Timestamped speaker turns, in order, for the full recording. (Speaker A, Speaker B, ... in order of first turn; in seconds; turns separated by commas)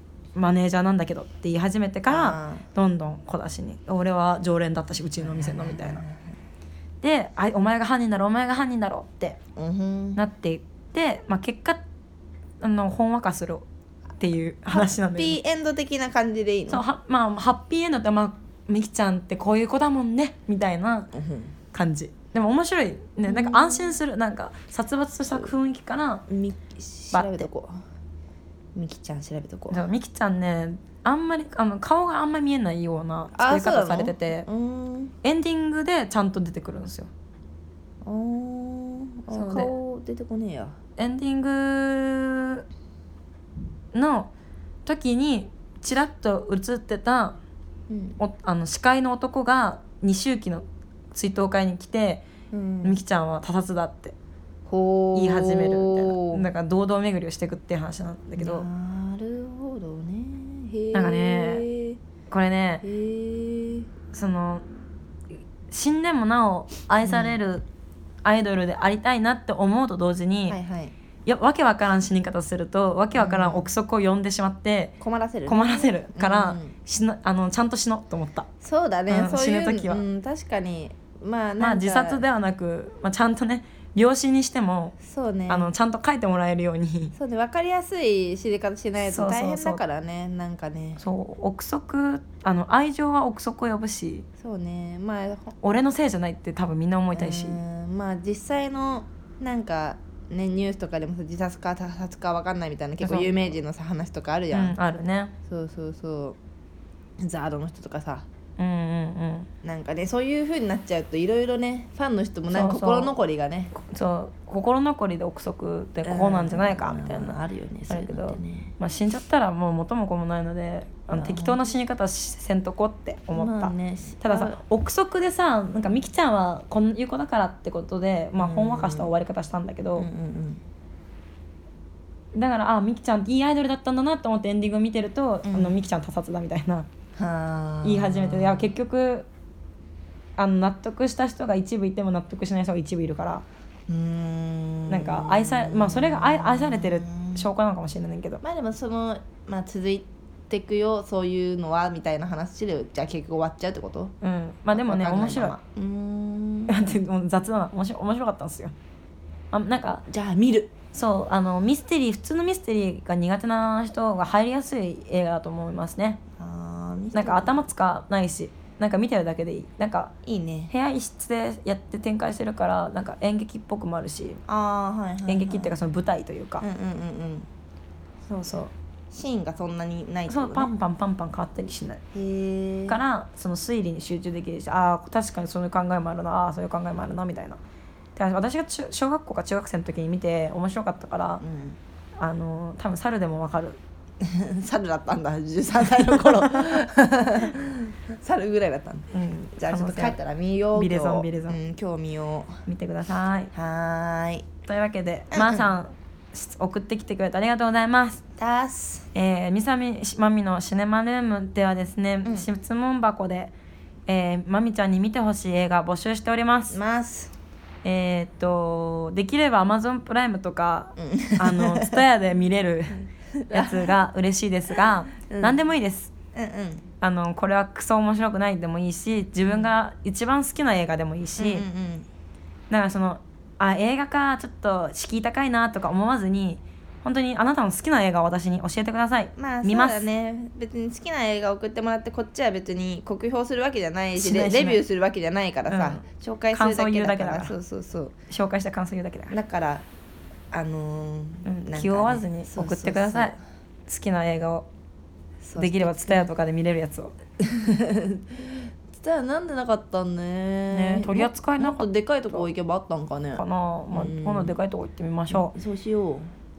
Speaker A: 0.3-6.0, Speaker B: 2.1-2.6, Speaker B: 5.2-6.3, Speaker A: 7.0-9.4, Speaker B: 9.6-10.2, Speaker A: 10.2-11.8, Speaker A: 12.6-13.6, Speaker A: 14.2-15.4, Speaker B: 14.7-16.8, Speaker A: 16.7-21.1, Speaker B: 21.1-21.5, Speaker A: 21.7-26.2, Speaker B: 23.3-24.0, Speaker B: 26.3-27.7, Speaker A: 27.1-27.5, Speaker B: 28.7-29.8, Speaker A: 29.7-34.5, Speaker B: 33.3-35.1, Speaker A: 35.2-37.1, Speaker B: 38.0-40.8, Speaker A: 39.3-39.7, Speaker A: 41.0-42.6, Speaker A: 43.9-44.3, Speaker A: 44.9-47.4, Speaker B: 47.9-48.2, Speaker A: 48.2-52.2, Speaker B: 52.5-53.0, Speaker A: 52.8-54.1, Speaker B: 54.6-56.5, Speaker A: 55.1-58.7, Speaker B: 58.4-62.0, Speaker A: 60.9-61.6, Speaker A: 62.3-62.8, Speaker B: 62.8-63.9, Speaker A: 64.1-64.6, Speaker A: 65.7-67.7, Speaker B: 67.0-67.4, Speaker A: 68.2-70.6, Speaker B: 70.5-70.9, Speaker A: 71.2-78.5, Speaker B: 73.1-73.7, Speaker B: 75.0-76.7, Speaker B: 78.6-82.2, Speaker A: 79.1-80.0, Speaker A: 81.6-85.0, Speaker B: 85.0-85.7, Speaker A: 85.5-87.1, Speaker B: 87.1-91.0, Speaker A: 89.1-89.8, Speaker A: 91.0-94.2, Speaker B: 94.4-95.5, Speaker A: 95.6-97.6, Speaker B: 97.1-104.8, Speaker A: 103.0-103.6, Speaker A: 104.5-105.3, Speaker B: 105.5-106.4, Speaker B: 107.2-108.2, Speaker A: 108.6-109.5, Speaker B: 109.6-113.7, Speaker A: 112.5-113.2, Speaker A: 113.7-117.4, Speaker B: 116.0-118.7, Speaker A: 117.9-130.1, Speaker B: 121.1-121.6, Speaker B: 123.3-124.6, Speaker B: 128.4-129.1, Speaker B: 129.9-130.6, Speaker A: 132.3-136.9, Speaker B: 135.4-135.8, Speaker B: 137.2-138.7, Speaker A: 137.8-139.3, Speaker A: 140.4-143.4, Speaker B: 143.9-147.5, Speaker A: 144.9-148.4, Speaker B: 148.4-154.1, Speaker A: 154.2-155.6, Speaker B: 154.7-156.9, Speaker A: 156.7-158.7, Speaker A: 159.5-160.0, Speaker B: 160.1-160.7, Speaker A: 160.9-166.2, Speaker B: 166.4-167.6, Speaker A: 167.1-170.1, Speaker B: 170.2-170.7, Speaker A: 170.7-174.4, Speaker B: 174.5-175.8, Speaker A: 175.3-176.7, Speaker B: 176.6-177.5, Speaker A: 178.3-178.7, Speaker B: 179.1-180.7, Speaker A: 180.3-182.0, Speaker B: 182.1-183.0, Speaker A: 182.9-187.6, Speaker A: 188.2-191.4, Speaker B: 191.4-191.8, Speaker A: 192.2-193.8, Speaker B: 194.2-202.6, Speaker A: 199.1-200.2, Speaker A: 200.7-201.6, Speaker A: 202.7-203.5, Speaker B: 203.5-204.5, Speaker A: 204.7-208.2, Speaker B: 205.3-205.7, Speaker B: 208.4-209.1, Speaker A: 209.1-213.5, Speaker A: 214.1-216.8, Speaker B: 216.7-217.3, Speaker A: 217.8-226.1, Speaker B: 221.0-222.0, Speaker B: 223.4-224.0, Speaker B: 225.2-225.6, Speaker B: 226.3-226.9, Speaker A: 227.0-231.7, Speaker B: 229.5-229.7, Speaker B: 231.4-232.1, Speaker A: 232.7-240.1, Speaker B: 239.4-248.1, Speaker A: 244.1-244.8, Speaker A: 245.7-247.5, Speaker A: 248.3-249.3, Speaker B: 249.3-249.8, Speaker B: 250.5-253.4, Speaker A: 251.4-253.3, Speaker A: 253.9-254.7, Speaker B: 255.4-256.3, Speaker A: 255.6-257.1, Speaker B: 257.4-264.6, Speaker A: 260.7-262.5, Speaker A: 263.3-265.5, Speaker B: 265.3-266.3